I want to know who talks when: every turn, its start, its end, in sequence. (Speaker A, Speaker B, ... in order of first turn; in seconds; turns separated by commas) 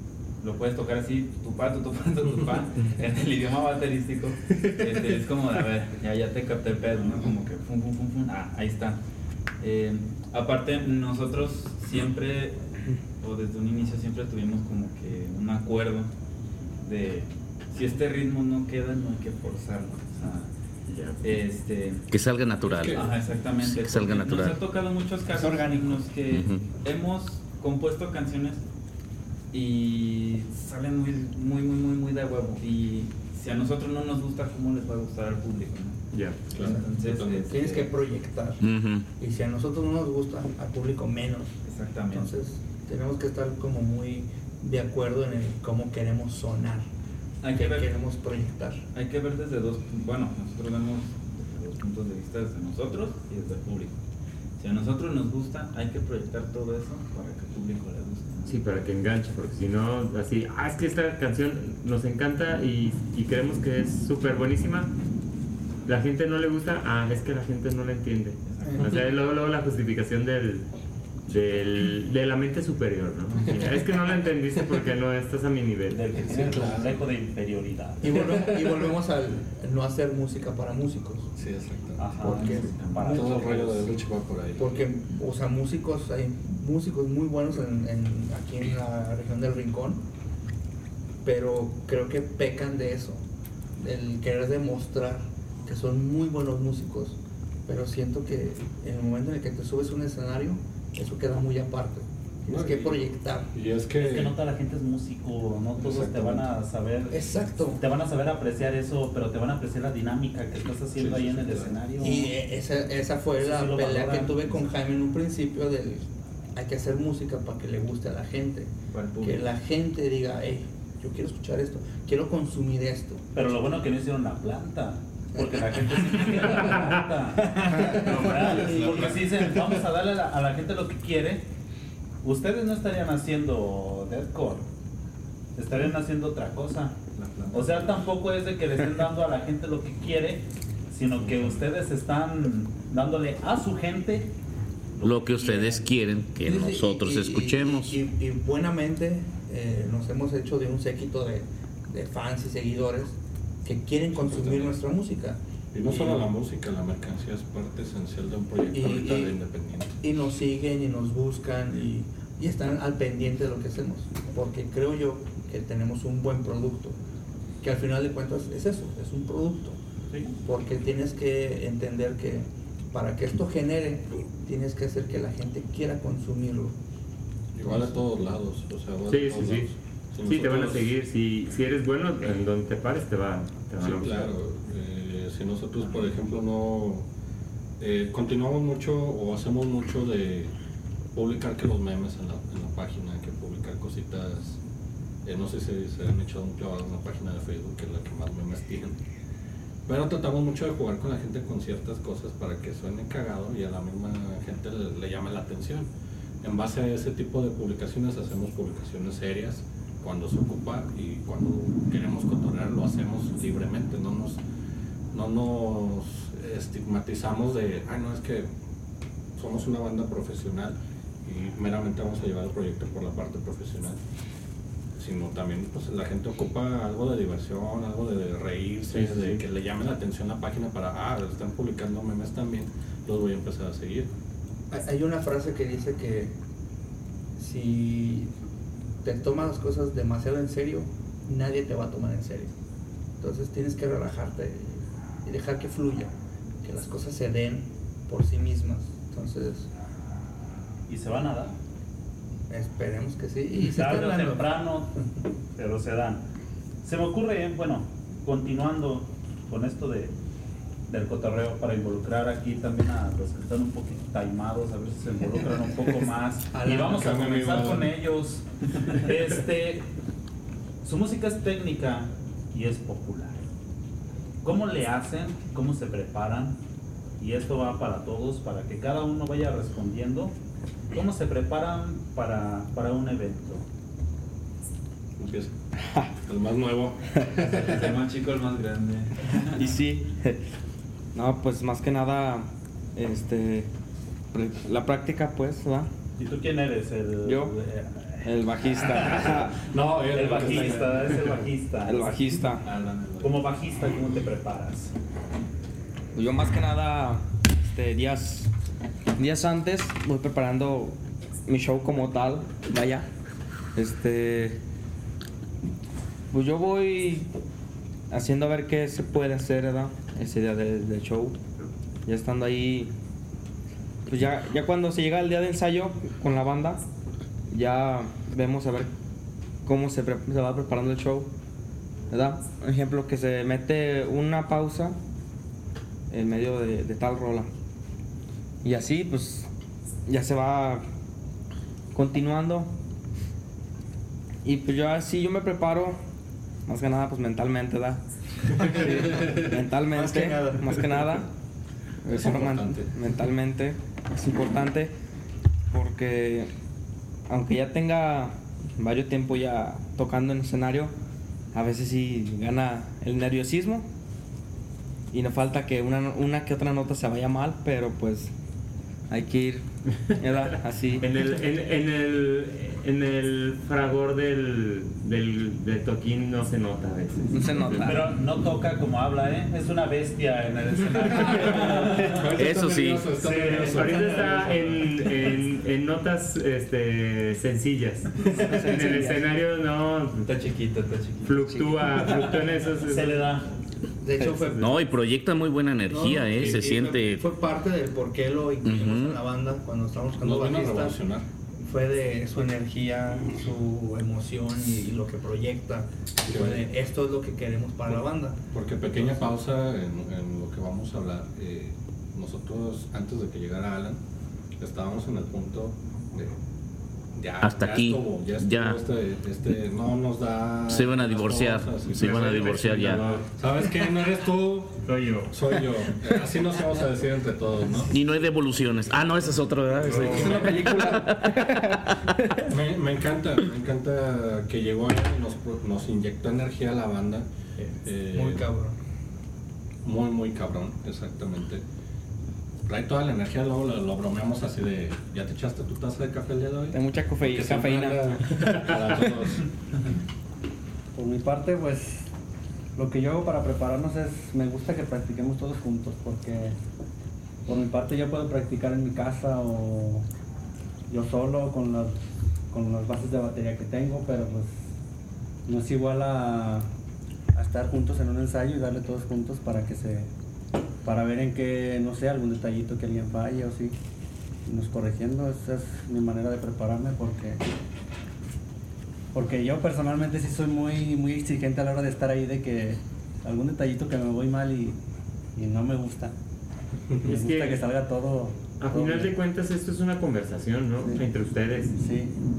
Speaker A: 0.4-9.0, Speaker A: 9.6-16.1, Speaker A: 16.8-20.5, Speaker B: 20.9-21.2, Speaker A: 21.2-22.0, Speaker C: 22.1-24.6, Speaker D: 22.6-23.1, Speaker A: 22.9-28.6, Speaker C: 26.3-26.7, Speaker A: 29.5-36.0, Speaker B: 36.1-36.4, Speaker D: 36.5-37.8, Speaker A: 36.6-37.9, Speaker E: 37.4-38.6, Speaker C: 38.6-39.0, Speaker E: 39.2-41.6, Speaker A: 41.6-42.3, Speaker E: 42.1-46.9, Speaker A: 47.4-47.9, Speaker E: 47.5-48.8, Speaker A: 48.9-54.0, Speaker A: 54.6-58.6, Speaker B: 58.5-64.9, Speaker B: 65.8-70.7, Speaker A: 68.5-69.0, Speaker B: 71.3-76.0, Speaker F: 75.9-78.1, Speaker D: 76.2-77.0, Speaker E: 78.0-81.3, Speaker D: 78.1-78.7, Speaker D: 81.3-84.8, Speaker F: 82.0-83.9, Speaker E: 82.2-83.2, Speaker E: 84.6-90.0, Speaker E: 91.2-93.2, Speaker E: 93.8-103.5, Speaker D: 102.5-104.3, Speaker F: 104.0-107.2, Speaker D: 105.8-106.5, Speaker E: 107.1-107.8, Speaker F: 107.8-112.4, Speaker D: 111.0-111.7, Speaker E: 112.0-123.2, Speaker F: 113.3-114.6, Speaker A: 118.9-119.5, Speaker F: 123.3-131.4, Speaker A: 126.4-126.9, Speaker B: 127.9-129.2, Speaker A: 128.6-128.9, Speaker F: 132.2-134.7, Speaker F: 135.6-137.0, Speaker A: 137.2-137.9, Speaker F: 137.5-144.3, Speaker C: 145.0-148.0, Speaker E: 146.4-156.3, Speaker D: 154.2-154.8, Speaker D: 155.7-159.9, Speaker E: 158.7-159.3, Speaker E: 160.0-167.0, Speaker E: 167.6-169.8, Speaker F: 170.1-170.3, Speaker E: 170.4-176.7, Speaker D: 177.5-180.9, Speaker B: 179.1-179.7, Speaker B: 180.2-184.3, Speaker D: 183.8-187.1, Speaker D: 187.8-190.5, Speaker D: 191.1-194.6, Speaker D: 195.2-199.0, Speaker D: 199.8-205.9, Speaker D: 206.4-214.4, Speaker D: 215.1-218.5, Speaker D: 219.3-224.0, Speaker D: 225.0-234.1, Speaker E: 234.7-236.3, Speaker E: 237.4-238.3, Speaker E: 239.0-242.5, Speaker E: 243.2-246.1, Speaker E: 246.6-249.7, Speaker F: 250.9-251.6, Speaker E: 252.5-254.5, Speaker F: 253.7-255.0, Speaker F: 255.6-256.2, Speaker F: 256.8-260.1, Speaker F: 260.9-269.9, Speaker E: 266.5-267.2, Speaker D: 266.7-267.9, Speaker F: 270.8-273.4, Speaker F: 274.4-276.6, Speaker F: 277.2-280.3, Speaker F: 280.9-283.6, Speaker D: 285.2-285.5, Speaker G: 285.8-286.1, Speaker D: 286.2-287.8, Speaker A: 287.4-289.6, Speaker G: 289.6-290.4, Speaker G: 291.1-293.7, Speaker G: 294.3-295.9, Speaker F: 296.2-299.5, Speaker G: 297.2-297.5, Speaker G: 298.2-299.6, Speaker D: 299.6-301.4, Speaker F: 300.1-302.1, Speaker G: 300.4-300.7, Speaker G: 301.8-302.6, Speaker D: 302.6-303.4, Speaker F: 303.2-304.9, Speaker G: 306.1-308.5, Speaker G: 309.2-313.1, Speaker G: 313.7-314.6, Speaker G: 316.3-317.3, Speaker G: 318.1-321.4, Speaker G: 322.1-322.9, Speaker G: 324.1-326.8, Speaker G: 327.5-328.9, Speaker G: 329.6-331.3, Speaker G: 332.1-335.0, Speaker G: 336.1-337.5, Speaker G: 338.6-339.5, Speaker G: 340.1-340.9, Speaker G: 341.9-342.7, Speaker G: 344.4-346.0, Speaker G: 346.7-348.0, Speaker G: 348.6-351.3, Speaker E: 348.7-349.3, Speaker E: 349.9-350.8, Speaker G: 352.0-354.9, Speaker D: 352.1-352.9, Speaker G: 355.7-356.5, Speaker G: 357.3-360.9, Speaker G: 361.5-363.9, Speaker G: 365.1-368.3, Speaker G: 369.1-369.6, Speaker G: 370.2-371.1, Speaker B: 371.0-377.9, Speaker G: 377.3-378.1, Speaker F: 377.8-382.2, Speaker D: 381.2-384.3, Speaker C: 382.3-383.1, Speaker B: 383.2-390.3, Speaker E: 383.8-384.7, Speaker G: 388.2-389.2, Speaker A: 390.2-391.4, Speaker B: 391.2-393.2, Speaker F: 392.8-393.5, Speaker E: 394.0-394.7, Speaker B: 394.3-394.7, Speaker C: 394.6-397.2, Speaker E: 395.9-401.0, Speaker D: 396.4-396.7, Speaker C: 398.6-399.2, Speaker D: 400.2-401.2, Speaker E: 401.6-408.4, Speaker D: 406.2-406.6, Speaker D: 407.9-414.0, Speaker E: 408.9-409.3, Speaker D: 414.6-416.4, Speaker D: 417.1-427.9, Speaker C: 417.4-418.8, Speaker C: 420.7-423.1, Speaker B: 422.0-423.3, Speaker B: 424.9-425.3, Speaker C: 427.9-430.9, Speaker B: 429.8-430.8, Speaker D: 430.0-430.5, Speaker G: 430.1-431.8, Speaker D: 432.4-437.3, Speaker E: 437.6-438.7, Speaker D: 437.8-438.4, Speaker D: 439.8-441.6, Speaker D: 442.6-449.4, Speaker G: 446.7-448.1, Speaker H: 450.9-452.1, Speaker H: 452.8-456.6, Speaker H: 457.4-460.0, Speaker H: 460.9-461.9, Speaker H: 462.5-464.6, Speaker H: 465.5-466.7, Speaker H: 467.3-470.1, Speaker H: 470.8-473.8, Speaker H: 474.4-477.4, Speaker H: 479.1-484.8, Speaker H: 485.4-486.1, Speaker H: 487.0-489.1, Speaker B: 487.0-487.6, Speaker B: 488.6-491.8, Speaker H: 491.8-492.1